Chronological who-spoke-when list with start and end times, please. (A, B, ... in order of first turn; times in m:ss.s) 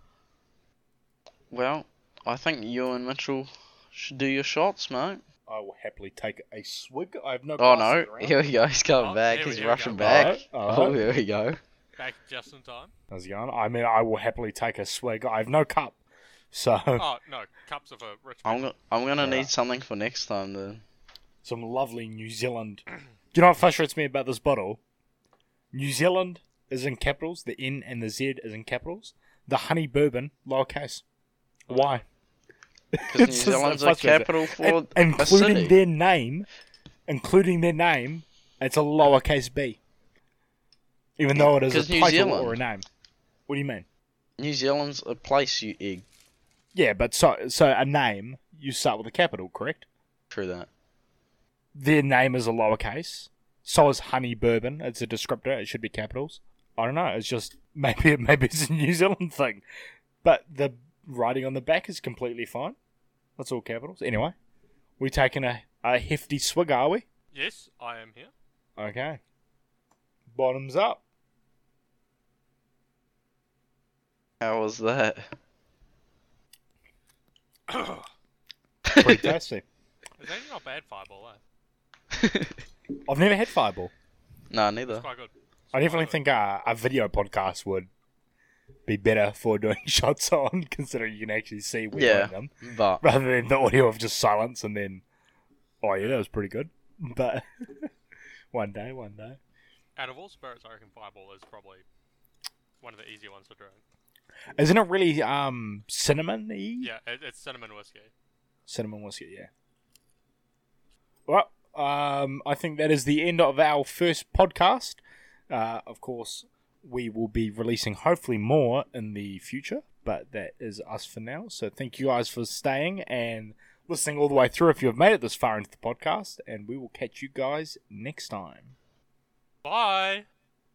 0:01.5-0:05.2 A
0:05.5-0:08.4 B
0:07.6-0:11.6 A
0:09.0-0:10.4 C
0:10.0-0:11.0 B
0:12.0-0:12.9 C
0:13.1-0:16.0 B
0:16.5-0:17.1 B
0:17.0-0:18.7 C
0:18.4-0:20.8 A
0:19.2-0:19.5 B
0:21.4-0:22.8 B
0:23.3-0:24.8 B
0:25.7-0:31.0 B
0:31.7-0:32.0 C
0:31.7-0:32.0 B
0:32.9-0:36.5 B
0:33.1-0:35.7 A
0:37.1-0:39.8 B
0:41.2-0:42.9 B
0:41.4-0:42.6 A
0:43.5-0:43.8 B
0:44.4-0:46.0 A
0:46.7-0:49.8 B
0:50.3-0:50.7 A
0:51.7-0:59.6 B
1:00.2-1:02.8 B
1:03.4-1:04.3 B
1:05.0-1:07.0 B
1:07.3-1:08.3 C
1:08.8-1:09.2 B
1:10.3-1:11.0 B
1:14.4-1:15.3 A
1:17.7-1:18.0 C
1:18.8-1:19.3 A
1:18.9-1:19.6 B
1:20.2-1:21.4 C
1:22.1-1:22.6 A
1:23.0-1:23.9 B
1:24.5-1:25.0 A
1:24.9-1:26.1 C
1:25.7-1:27.9 B
1:28.9-1:35.0 B
1:31.9-1:33.0 A
1:35.8-1:37.9 B
1:38.5-1:39.4 B
1:40.0-1:41.8 C
1:42.8-1:43.8 C
1:44.6-1:46.9 B
1:46.8-1:48.1 C
1:48.7-1:49.5 B
1:51.3-2:08.7 B
2:09.6-2:10.2 C